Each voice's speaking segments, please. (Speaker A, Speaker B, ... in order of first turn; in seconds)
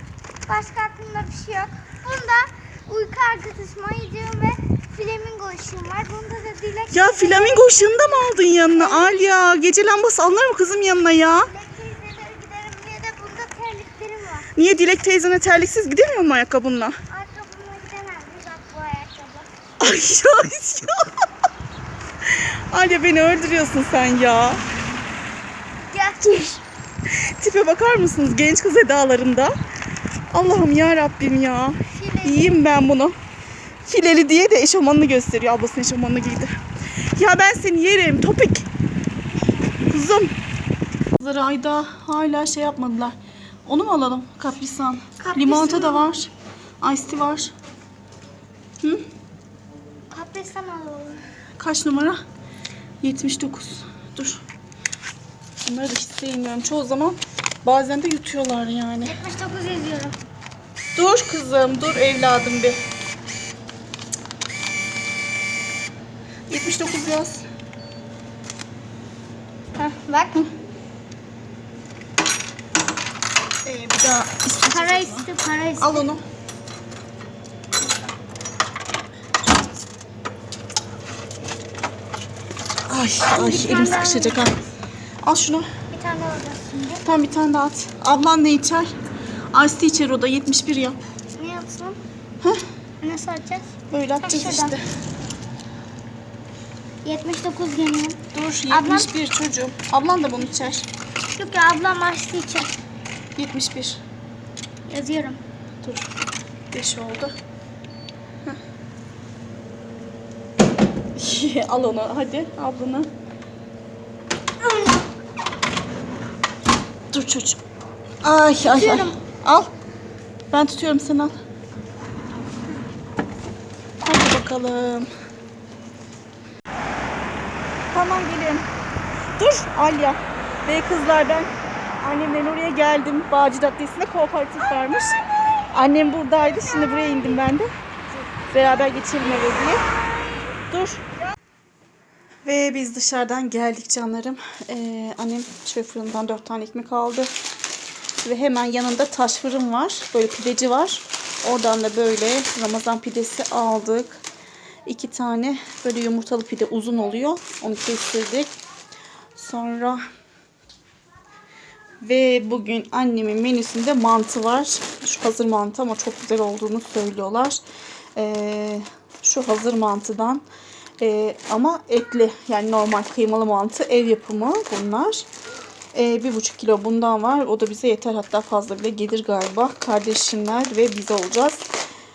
Speaker A: 0.5-9.3, 11.4-14.5, 17.1-19.5, 25.8-26.6, 31.9-32.6, 45.2-46.1, 50.1-51.2, 59.0-60.2, 69.8-70.5, 74.7-76.1, 83.3-84.5, 85.9-87.1, 91.4-92.0, 93.0-93.7, 94.2-94.8, 97.0-98.2, 98.7-99.1, 101.4-102.7, 104.9-105.4, 114.6-115.0, 118.6-119.1
Speaker B: 6.9-11.5, 14.5-17.0, 19.8-21.1, 22.3-24.6, 27.2-29.5, 30.3-33.2, 33.9-36.6, 37.1-38.7, 39.9-40.3, 41.2-43.1, 43.7-47.5, 51.6-52.2, 53.0-54.4, 55.6-59.2, 61.0-62.8, 66.5-67.5, 73.7-75.3, 75.8-76.2, 82.9-84.6, 85.2-85.7, 87.0-88.9, 89.5-91.0, 93.9-94.8, 98.3-100.9, 103.4-104.0, 105.8-106.1, 106.7-107.3, 111.2-113.1, 117.1-117.6, 118.2-119.7, 120.5-121.3, 124.0-125.1, 127.9-128.7, 129.4-135.2, 135.7-137.7, 138.5-139.8, 140.7-141.0, 142.4-147.3, 148.2-154.2, 154.9-158.5, 159.3-160.0, 162.0-167.6, 168.2-170.4, 171.0-175.3, 175.9-181.6